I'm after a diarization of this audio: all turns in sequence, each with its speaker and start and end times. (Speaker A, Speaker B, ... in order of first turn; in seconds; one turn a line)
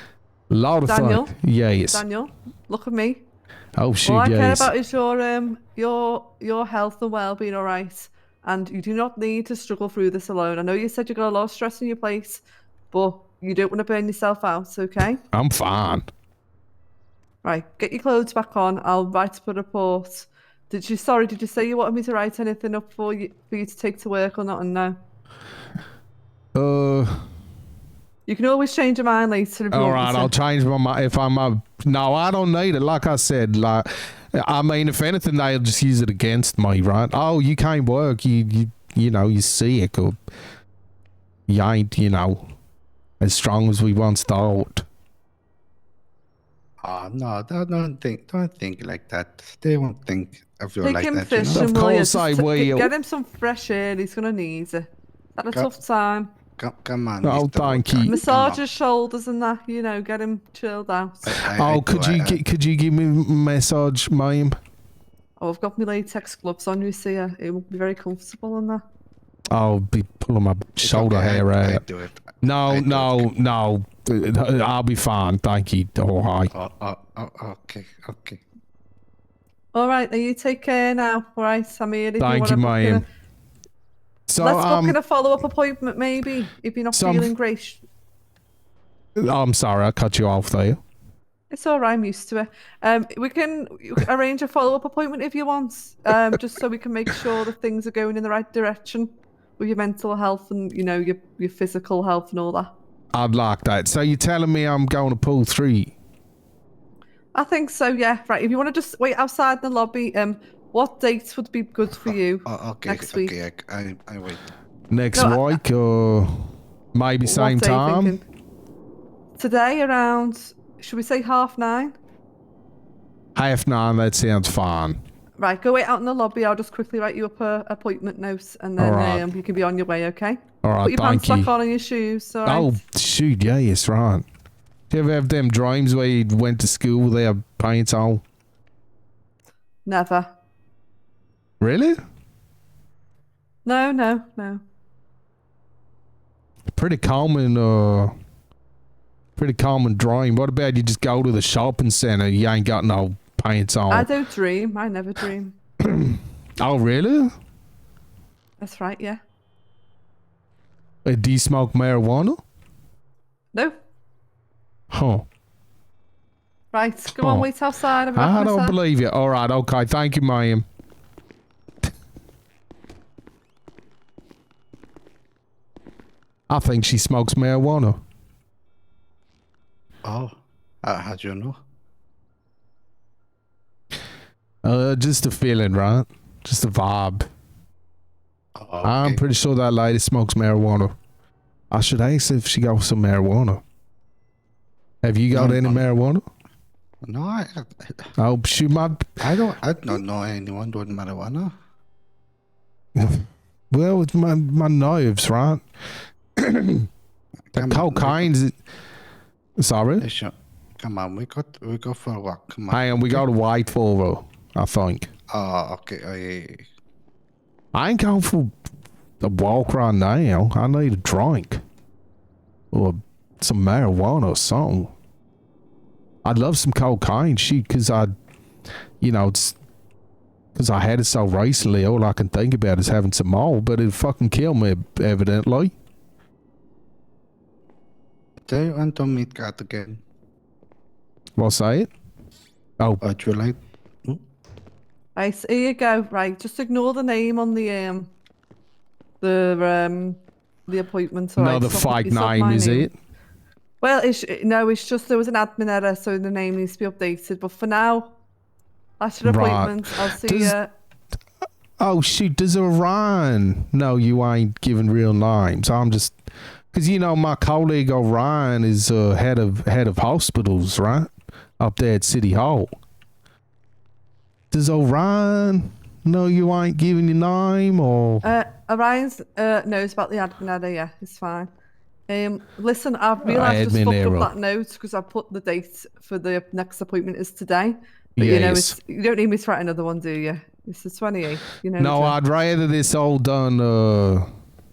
Speaker A: 0.5-2.0
Speaker B: 0.9-3.2
Speaker A: 3.8-4.7
Speaker B: 4.0-15.2
Speaker A: 15.3-16.1
Speaker B: 17.4-25.0
Speaker A: 26.6-27.2
Speaker B: 28.3-30.3
Speaker A: 29.7-40.2
Speaker A: 41.5-42.4
Speaker A: 43.2-44.9
Speaker C: 46.8-51.7
Speaker B: 50.8-56.3
Speaker A: 51.5-52.9
Speaker C: 56.6-58.6
Speaker A: 57.2-58.2
Speaker B: 58.1-61.3
Speaker C: 61.2-62.4
Speaker A: 61.5-64.6
Speaker B: 65.4-68.8
Speaker A: 69.5-71.8
Speaker C: 70.8-73.3
Speaker A: 72.4-76.5
Speaker C: 76.5-78.4
Speaker B: 79.7-83.0
Speaker A: 82.2-83.0
Speaker A: 84.3-85.0
Speaker B: 84.4-87.8
Speaker A: 86.9-87.3
Speaker A: 89.2-90.8
Speaker B: 91.5-102.7
Speaker A: 103.1-106.0
Speaker B: 107.3-113.3
Speaker C: 112.0-114.5
Speaker A: 114.9-118.2
Speaker B: 115.1-115.6
Speaker B: 117.2-118.2
Speaker B: 119.4-121.9
Speaker A: 123.3-125.0
Speaker B: 125.4-132.8
Speaker A: 128.8-129.3
Speaker A: 130.6-131.5
Speaker A: 132.4-134.2
Speaker A: 134.9-138.2
Speaker B: 139.9-140.3
Speaker A: 141.6-142.0
Speaker B: 143.7-144.6
Speaker A: 146.8-148.1
Speaker A: 149.4-154.1
Speaker B: 153.9-155.6
Speaker A: 155.8-157.3
Speaker B: 158.6-159.2
Speaker A: 161.1-162.4
Speaker A: 164.9-165.3
Speaker B: 166.7-168.8
Speaker A: 167.2-167.5
Speaker A: 168.1-170.7
Speaker A: 176.5-178.0
Speaker C: 180.1-181.6
Speaker A: 184.6-187.3
Speaker C: 188.6-189.2
Speaker A: 188.8-190.9
Speaker A: 191.7-193.6
Speaker A: 195.0-196.2
Speaker C: 195.3-195.9
Speaker C: 197.0-198.1
Speaker A: 198.2-199.2
Speaker C: 199.2-201.5
Speaker A: 203.0-205.6
Speaker A: 206.4-206.9
Speaker C: 207.5-208.3
Speaker A: 207.6-208.5
Speaker A: 209.6-210.1
Speaker C: 210.0-213.2
Speaker A: 212.7-215.1
Speaker C: 215.3-216.6
Speaker A: 217.7-218.5
Speaker A: 219.2-221.6
Speaker A: 222.7-224.9
Speaker A: 226.2-228.1
Speaker A: 229.0-229.6
Speaker A: 230.6-235.7
Speaker C: 238.4-240.0
Speaker A: 241.4-241.9
Speaker C: 243.0-244.2
Speaker B: 245.2-248.1
Speaker B: 249.2-252.9
Speaker A: 251.4-252.9
Speaker B: 253.8-258.1
Speaker B: 259.0-260.7
Speaker A: 259.2-260.6
Speaker A: 261.8-266.1
Speaker A: 266.7-272.7
Speaker A: 274.5-278.2
Speaker B: 278.2-281.5
Speaker B: 282.1-292.2
Speaker A: 283.2-284.3
Speaker A: 288.2-288.8
Speaker A: 291.8-294.3